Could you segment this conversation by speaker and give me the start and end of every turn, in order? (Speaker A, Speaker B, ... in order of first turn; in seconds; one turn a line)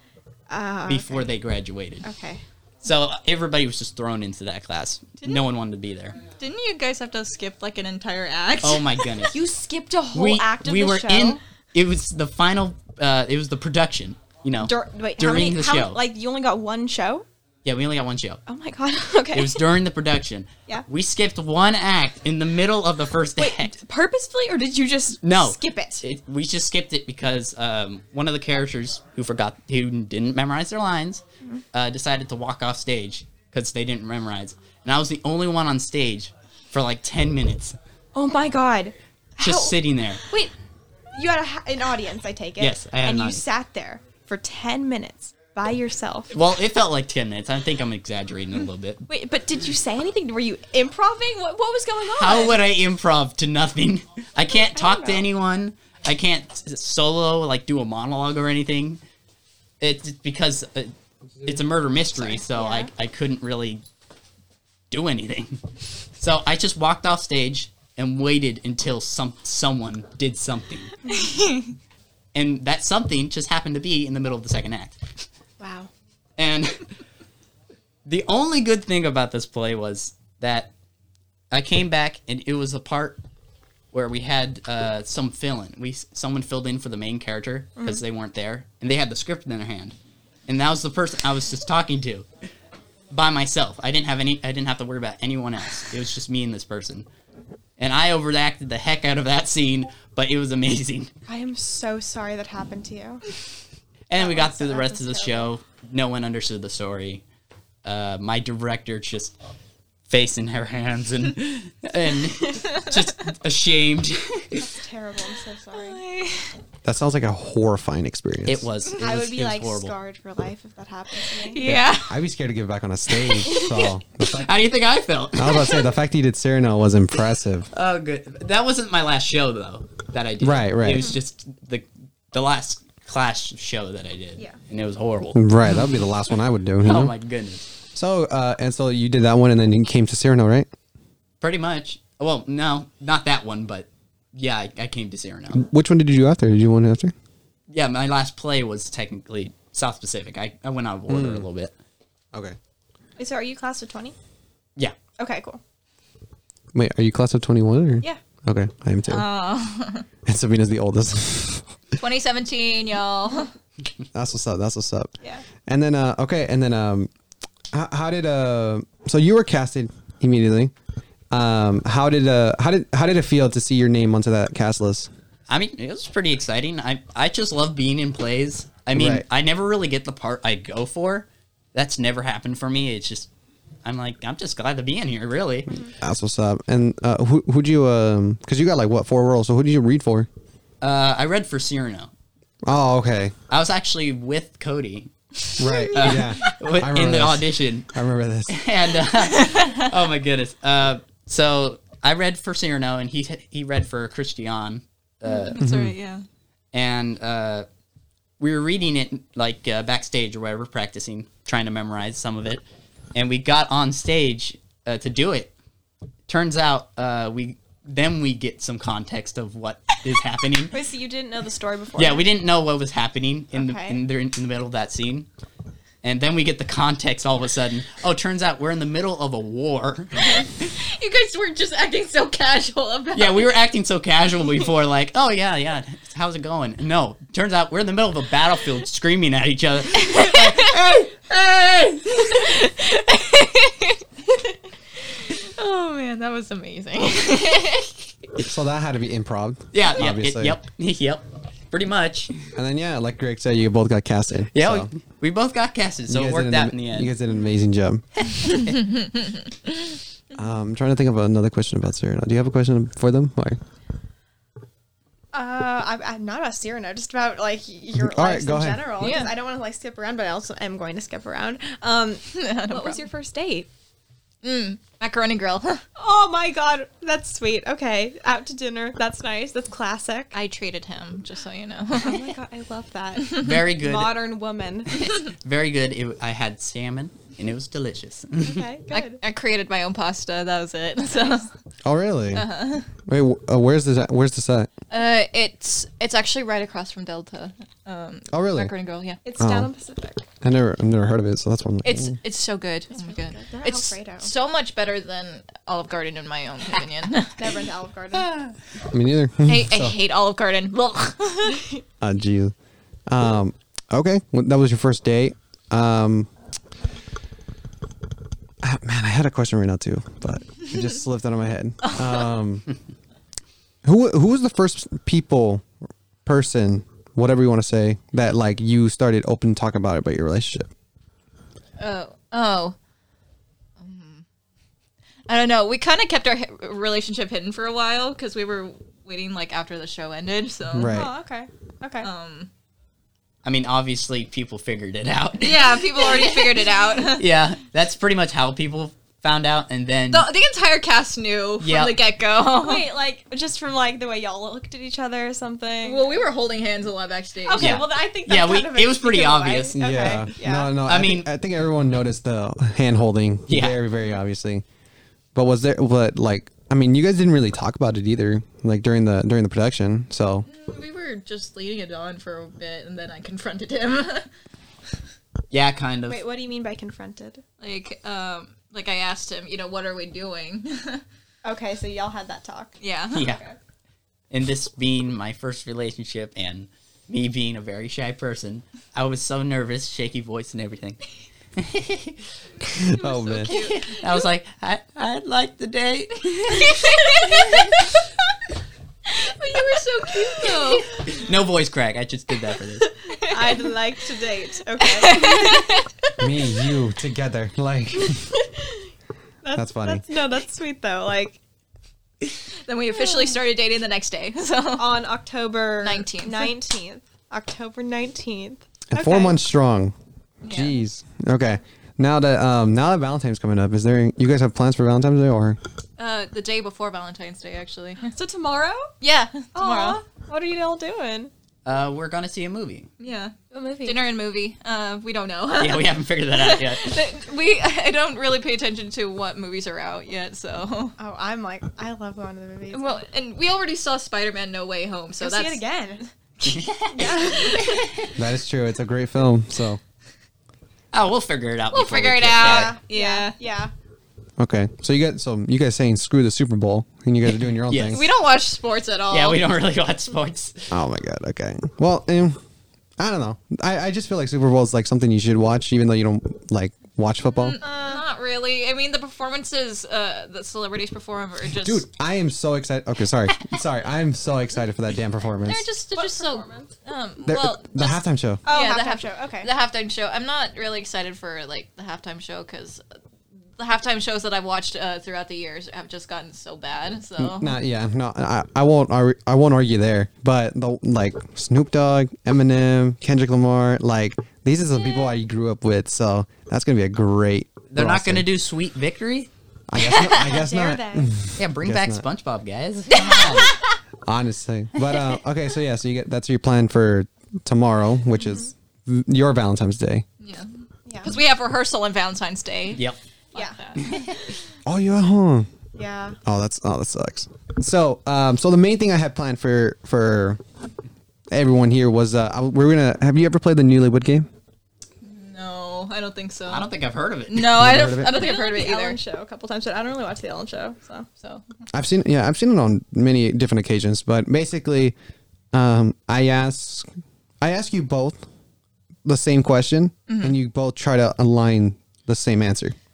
Speaker A: 0.5-1.3
Speaker B: 0.9-2.0
Speaker A: 2.0-2.4
Speaker B: 2.8-6.2
Speaker C: 6.4-9.1
Speaker B: 8.6-9.3
Speaker A: 9.3-11.4
Speaker B: 10.1-16.0
Speaker A: 14.6-17.3
Speaker B: 17.6-18.4
Speaker A: 18.5-19.6
Speaker B: 19.3-23.8
Speaker A: 23.4-26.0
Speaker B: 25.2-37.8
Speaker A: 38.1-40.5
Speaker B: 39.4-40.2
Speaker A: 41.1-46.3
Speaker B: 42.6-43.4
Speaker B: 46.3-49.1
Speaker A: 49.1-52.6
Speaker B: 52.2-59.0
Speaker A: 54.7-55.2
Speaker B: 59.8-63.8
Speaker A: 62.2-62.9
Speaker B: 64.9-65.6
Speaker B: 66.2-71.0
Speaker C: 71.1-71.7
Speaker B: 72.3-75.0
Speaker A: 75.6-75.9
Speaker B: 76.4-76.9
Speaker B: 78.1-80.7
Speaker B: 81.5-83.2
Speaker B: 83.9-90.0
Speaker B: 90.5-92.3
Speaker B: 93.1-97.1
Speaker B: 97.8-101.1
Speaker A: 101.3-103.2
Speaker B: 104.1-107.2
Speaker A: 104.2-105.5
Speaker B: 107.8-109.3
Speaker B: 110.1-114.7
Speaker A: 114.6-116.0
Speaker C: 115.7-116.6
Speaker D: 116.8-118.7
Speaker B: 118.5-119.9
Speaker A: 119.0-121.6
Speaker C: 121.4-122.2
Speaker D: 121.6-124.5
Speaker C: 123.2-123.9
Speaker B: 124.3-125.8
Speaker D: 125.3-127.7
Speaker C: 125.5-125.8
Speaker B: 127.7-135.4
Speaker D: 130.4-131.1
Speaker D: 135.3-137.1
Speaker B: 136.8-137.7
Speaker D: 137.9-140.7
Speaker B: 141.4-145.6
Speaker D: 145.5-147.1
Speaker B: 147.7-151.7
Speaker D: 151.1-151.5
Speaker A: 153.2-154.2
Speaker A: 155.2-155.6
Speaker D: 156.7-159.2
Speaker C: 159.1-160.1
Speaker D: 160.2-161.7
Speaker C: 162.0-163.5
Speaker D: 164.1-165.1
Speaker D: 165.7-167.1
Speaker D: 167.7-170.7
Speaker D: 171.3-175.1
Speaker B: 175.5-183.3
Speaker D: 178.9-179.2
Speaker B: 183.8-185.7
Speaker D: 186.0-190.3
Speaker B: 190.8-192.1
Speaker D: 192.7-193.3
Speaker B: 193.5-195.1
Speaker D: 195.6-198.6
Speaker A: 195.6-195.9
Speaker C: 195.9-196.2
Speaker B: 195.9-197.9
Speaker B: 198.5-205.6
Speaker C: 199.2-199.9
Speaker C: 205.2-206.2
Speaker D: 205.6-205.9
Speaker B: 206.7-207.7
Speaker B: 208.4-212.6
Speaker B: 213.1-215.5
Speaker B: 216.3-220.7
Speaker A: 220.7-222.3
Speaker B: 222.0-225.3
Speaker A: 223.6-224.0
Speaker B: 226.0-230.7
Speaker C: 230.3-233.5
Speaker B: 233.2-242.3
Speaker C: 240.1-240.7
Speaker C: 242.1-248.1
Speaker D: 248.4-250.6
Speaker B: 249.7-252.3
Speaker D: 252.6-254.9
Speaker B: 254.5-257.1
Speaker D: 256.1-258.0
Speaker C: 258.5-259.7
Speaker D: 260.4-263.6
Speaker A: 265.3-273.7
Speaker D: 268.0-268.9
Speaker C: 269.0-269.3
Speaker C: 272.3-273.1
Speaker C: 274.4-275.8
Speaker A: 276.0-280.4
Speaker C: 280.3-282.3
Speaker A: 282.0-284.9
Speaker B: 283.3-284.2
Speaker B: 285.0-288.7
Speaker A: 288.4-289.2
Speaker C: 288.9-291.5
Speaker D: 291.9-292.5
Speaker C: 292.3-292.9
Speaker D: 293.1-294.7
Speaker C: 294.9-299.2
Speaker D: 298.3-298.7
Speaker A: 299.2-300.2
Speaker D: 299.4-299.7
Speaker D: 300.4-302.2
Speaker C: 301.8-307.5
Speaker A: 302.9-304.3
Speaker A: 307.4-308.3
Speaker B: 308.3-308.5
Speaker D: 308.9-310.0
Speaker C: 309.5-311.6
Speaker D: 312.0-312.6
Speaker D: 313.1-316.3
Speaker D: 318.6-322.7
Speaker C: 321.9-322.2
Speaker D: 323.8-325.7
Speaker D: 326.2-330.7
Speaker C: 331.8-332.8
Speaker C: 333.8-334.2
Speaker C: 335.3-341.0
Speaker D: 340.7-341.1
Speaker A: 340.8-342.1
Speaker C: 342.0-342.5
Speaker B: 343.4-346.5
Speaker C: 345.4-347.3
Speaker A: 346.1-346.5
Speaker B: 347.1-350.3
Speaker C: 350.1-352.9
Speaker B: 351.6-352.0
Speaker A: 352.6-356.2
Speaker C: 355.8-357.8
Speaker A: 357.4-360.7
Speaker B: 357.6-360.3
Speaker D: 359.8-364.6
Speaker B: 360.9-361.3
Speaker B: 363.5-363.8
Speaker D: 365.4-370.5
Speaker C: 370.5-374.3
Speaker B: 375.5-376.2
Speaker A: 376.1-377.4
Speaker C: 377.6-381.0
Speaker A: 381.4-383.6
Speaker C: 382.8-383.3
Speaker B: 383.1-383.4
Speaker B: 384.3-391.0
Speaker B: 391.6-392.2
Speaker D: 392.8-393.6
Speaker C: 392.8-394.2
Speaker B: 393.5-397.7
Speaker C: 396.5-397.9
Speaker C: 399.1-401.0
Speaker B: 401.1-402.9
Speaker C: 403.1-403.7
Speaker A: 403.2-405.6
Speaker C: 404.9-406.1
Speaker D: 406.2-408.3
Speaker A: 408.0-408.9
Speaker A: 409.4-411.4
Speaker D: 409.6-410.0
Speaker C: 412.6-415.0
Speaker A: 412.9-413.4
Speaker A: 414.8-419.4
Speaker C: 415.8-416.6
Speaker D: 418.9-419.9
Speaker C: 420.4-420.8
Speaker D: 420.5-425.6
Speaker C: 426.0-428.1
Speaker A: 428.1-428.9
Speaker C: 429.0-430.0
Speaker A: 429.5-431.3
Speaker B: 431.6-432.9
Speaker C: 433.0-441.0
Speaker A: 433.5-434.0
Speaker B: 435.6-437.0
Speaker A: 441.0-443.0
Speaker C: 442.7-445.6
Speaker A: 445.2-446.1
Speaker C: 446.4-447.8
Speaker B: 446.4-448.1
Speaker A: 446.9-447.9
Speaker D: 448.1-449.8
Speaker B: 450.9-452.8
Speaker C: 451.7-453.4
Speaker A: 452.4-453.7
Speaker D: 454.4-458.0
Speaker B: 457.6-458.0
Speaker C: 457.9-459.4
Speaker B: 459.1-460.7
Speaker D: 460.7-462.4
Speaker D: 463.0-467.6
Speaker C: 467.4-471.8
Speaker A: 467.6-468.1
Speaker D: 471.6-475.6
Speaker C: 475.4-482.8
Speaker A: 475.9-476.7
Speaker D: 477.2-478.4
Speaker A: 478.5-479.5
Speaker C: 483.6-487.6
Speaker D: 487.2-498.3
Speaker B: 497.7-499.3
Speaker D: 499.7-502.0
Speaker C: 499.8-500.4
Speaker A: 500.1-501.1
Speaker B: 501.4-503.6
Speaker C: 502.9-503.6
Speaker D: 504.1-510.1
Speaker A: 508.2-508.5
Speaker C: 510.2-510.5
Speaker C: 511.0-514.2
Speaker B: 513.8-514.2
Speaker D: 514.6-515.5
Speaker A: 515.8-516.2
Speaker D: 516.2-520.4
Speaker D: 521.3-524.3
Speaker C: 525.0-526.7
Speaker B: 526.5-527.5
Speaker C: 527.3-529.0
Speaker D: 527.5-528.2
Speaker A: 528.1-531.1
Speaker D: 531.7-535.0
Speaker D: 535.5-536.9
Speaker D: 537.4-538.2
Speaker D: 539.0-542.8
Speaker C: 540.1-540.4